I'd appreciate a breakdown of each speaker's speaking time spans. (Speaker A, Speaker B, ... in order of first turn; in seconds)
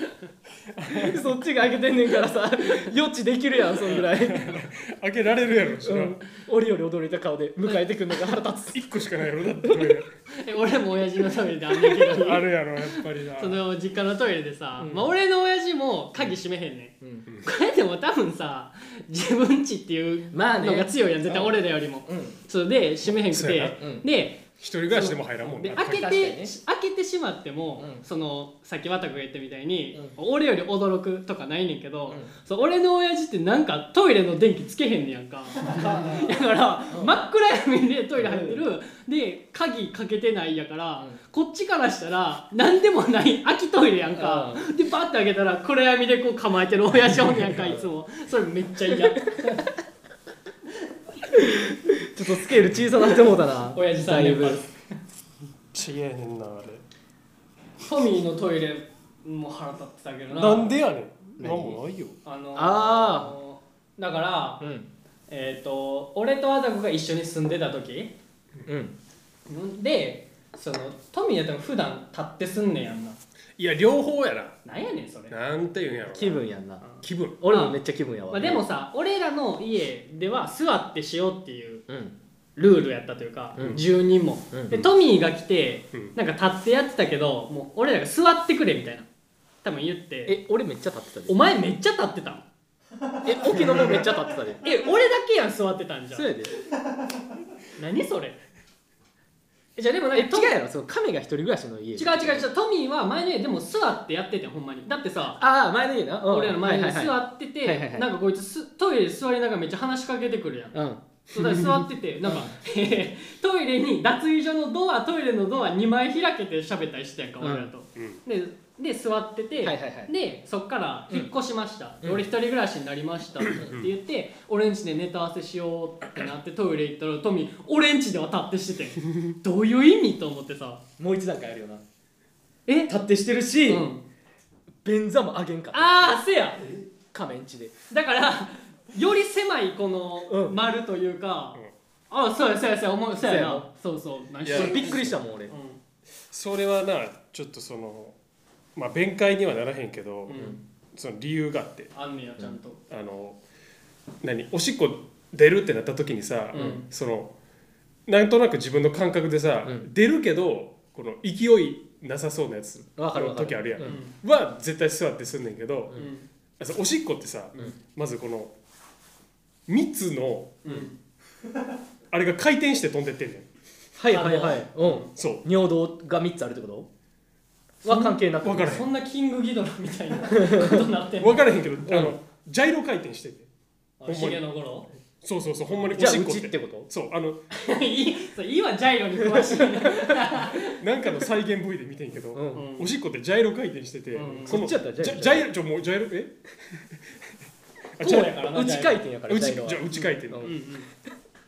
Speaker A: 0.7-1.2, 4.0-6.2, 8.7-10.1, 12.1-13.6, 23.3-23.8, 24.6-26.1, 55.7-56.8, 60.3-62.2, 73.6-74.6, 75.3-76.4, 77.0-77.4, 111.4-111.8, 123.6-123.9, 144.4-145.2, 146.3-148.2, 148.8-150.4, 150.9-151.9, 152.9-153.4, 154.2-157.3, 158.1-166.0, 166.6-168.5, 169.7-170.8, 172.1-173.5, 175.2-175.4, 178.4-178.9, 181.2-183.5, 184.1-184.4, 185.2-187.4, 190.6-197.0, 198.0-198.4, 199.3-200.6
Speaker B: 0.9-4.7, 5.8-8.9, 9.6-10.0, 11.9-12.2, 14.8-15.1, 17.0-17.3, 20.3-22.4, 23.8-24.0, 25.8-26.6, 27.8-28.0, 35.7-37.2, 38.2-38.6, 44.1-44.7, 47.6-47.9, 51.3-54.6, 61.4-61.8, 62.5-63.3, 64.6-64.9, 68.7-69.0, 76.1-76.9, 77.4-78.6, 81.9-82.2, 84.5-84.9, 90.3-91.4, 93.2-94.6, 96.1-96.6, 100.1-102.5, 105.4-108.1, 110.7-111.0, 112.2-112.5, 117.4-117.7, 119.6-120.1, 122.0-122.3, 131.0-131.8, 132.9-133.9, 134.8-136.1, 137.1-137.7, 140.3-140.6, 143.2-143.7, 144.5-145.5, 150.3-150.6, 162.9-164.0, 173.9-176.9, 177.8-178.9, 180.3-180.9, 181.9-182.2, 185.9-186.9, 189.2-190.4, 192.3-192.7, 194.4-195.5, 198.4-200.5
Speaker C: 10.3-49.8, 53.7-54.7, 57.8-60.8, 62.2-64.7, 65.3-68.2, 69.5-73.2, 74.6-75.3, 76.8-77.8, 78.3-81.8, 82.5-89.1, 89.6-90.4, 91.3-92.5, 93.5-94.0, 94.6-96.3, 97.8-98.4, 99.8-100.5, 102.0-105.4, 106.3-110.8, 111.3-130.8, 132.7-132.9, 133.7-134.1, 135.7-136.7, 137.9-141.6, 142.1-145.8, 150.3-150.6, 151.9-152.8, 156.5-156.9, 163.8-164.2, 165.9-166.3, 170.6-170.9, 174.1-175.1, 177.9-181.5, 184.0-184.9, 187.5-190.8, 192.5-192.9, 194.1-194.6, 198.0-199.0, 200.4-200.9